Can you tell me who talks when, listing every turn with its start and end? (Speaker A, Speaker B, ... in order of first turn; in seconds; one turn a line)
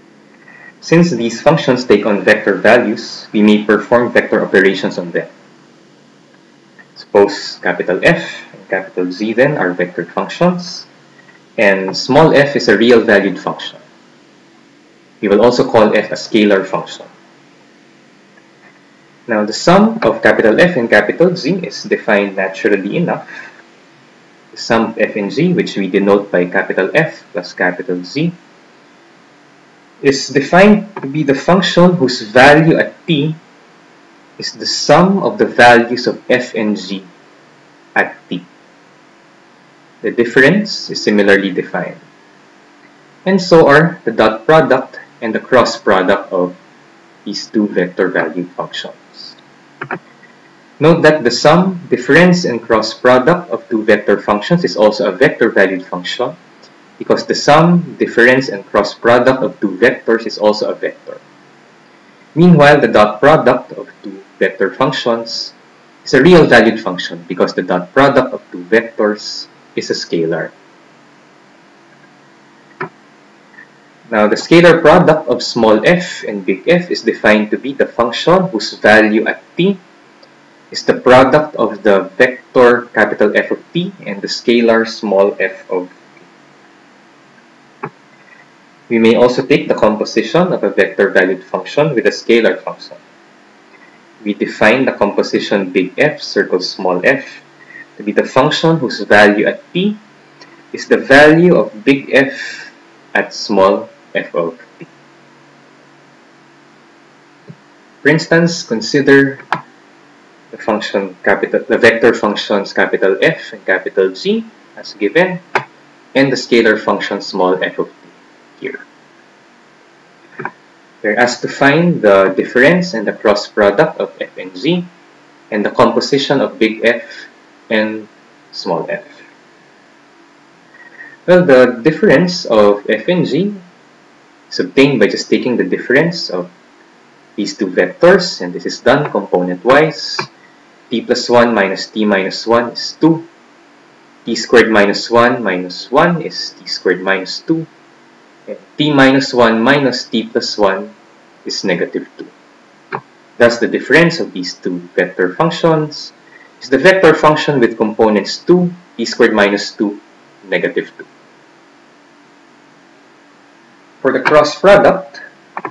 Speaker A: 0.8-5.3
Speaker A: 7.0-10.9
Speaker A: 11.6-13.8
Speaker A: 15.2-17.1
Speaker A: 19.3-23.5
Speaker A: 24.5-28.4
Speaker A: 30.0-33.4
Speaker A: 34.4-37.1
Speaker A: 37.9-38.5
Speaker A: 40.0-42.0
Speaker A: 43.2-46.6
Speaker A: 47.2-49.4
Speaker A: 50.8-56.4
Speaker A: 57.0-61.2
Speaker A: 62.3-70.5
Speaker A: 74.1-79.8
Speaker A: 80.7-86.2
Speaker A: 88.9-93.0
Speaker A: 94.2-97.4
Speaker A: 98.0-100.0
Speaker A: 100.7-104.9
Speaker A: 108.0-109.4
Speaker A: 110.5-115.4
Speaker A: 116.1-118.8
Speaker A: 121.0-124.9
Speaker A: 125.5-129.2
Speaker A: 131.3-133.6
Speaker A: 134.5-136.5
Speaker A: 137.4-140.3
Speaker A: 140.9-143.3
Speaker A: 144.2-147.7
Speaker A: 148.5-150.9
Speaker A: 151.4-152.3
Speaker A: 153.4-161.1
Speaker A: 164.0-165.2